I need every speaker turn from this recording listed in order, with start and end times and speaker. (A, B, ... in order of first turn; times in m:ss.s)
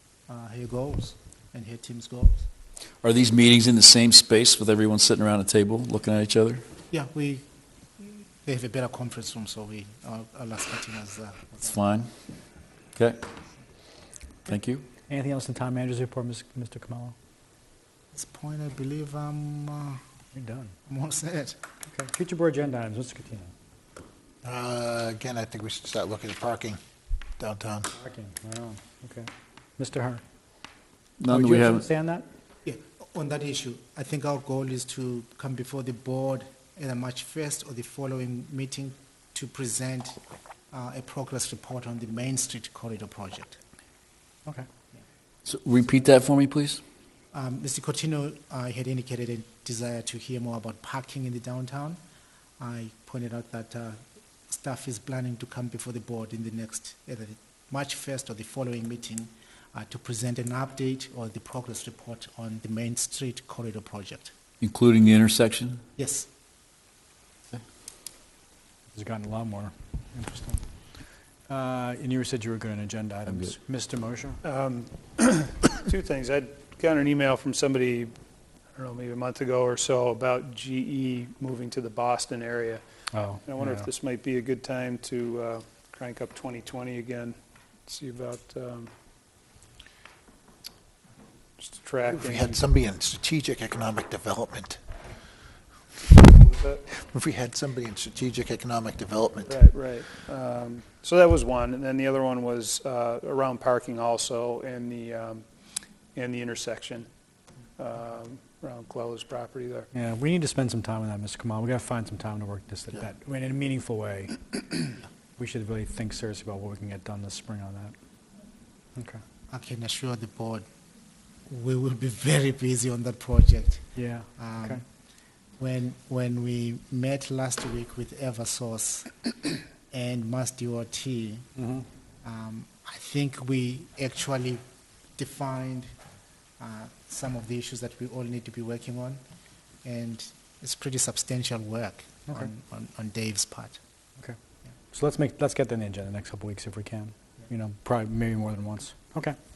0:00.3-0:02.5 A
0:03.0-0:06.6 B
0:06.9-0:07.5 A
0:08.4-0:11.7 A
0:11.6-0:12.1 B
0:13.0-0:13.2 B
0:14.5-0:14.8 B
0:15.1-0:17.2 C
0:18.1-0:20.0 A
0:20.3-0:20.7 C
0:20.9-0:21.6 A
0:21.9-0:23.5 C
0:24.4-0:26.8 D
0:27.4-0:27.9 D
0:27.9-0:30.2 C
0:31.2-0:31.8 B
0:31.3-0:32.3 C
0:32.7-0:40.2 A
0:40.7-0:43.6 A
0:45.5-0:46.8 B
0:47.3-0:52.0 A
0:52.6-1:04.3 A
1:04.6-1:05.8 B
1:06.0-1:06.3 A
1:08.9-1:10.6 C
1:11.5-1:14.4 C
1:14.4-1:18.1 E
1:18.8-1:22.8 E
1:23.1-1:23.9 C
1:23.4-1:27.4 E
1:27.9-1:28.9 E
1:31.6-1:32.6 E
1:32.1-1:34.8 D
1:36.0-1:36.9 E
1:36.9-1:39.6 D
1:39.5-1:45.4 E
1:46.2-1:47.1 E
1:47.8-1:49.9 E
1:49.9-1:57.9 C
1:59.0-1:59.2 C
1:59.5-2:00.7 A
2:01.5-2:04.8 A
2:04.0-2:04.8 C
2:05.6-2:09.3 A
2:09.9-2:11.5 A
2:11.6-2:11.9 C
2:12.2-2:14.6 A
2:15.2-2:15.9 A
2:16.6-2:19.2 A
2:19.8-2:23.8 A
2:24.9-2:29.4 C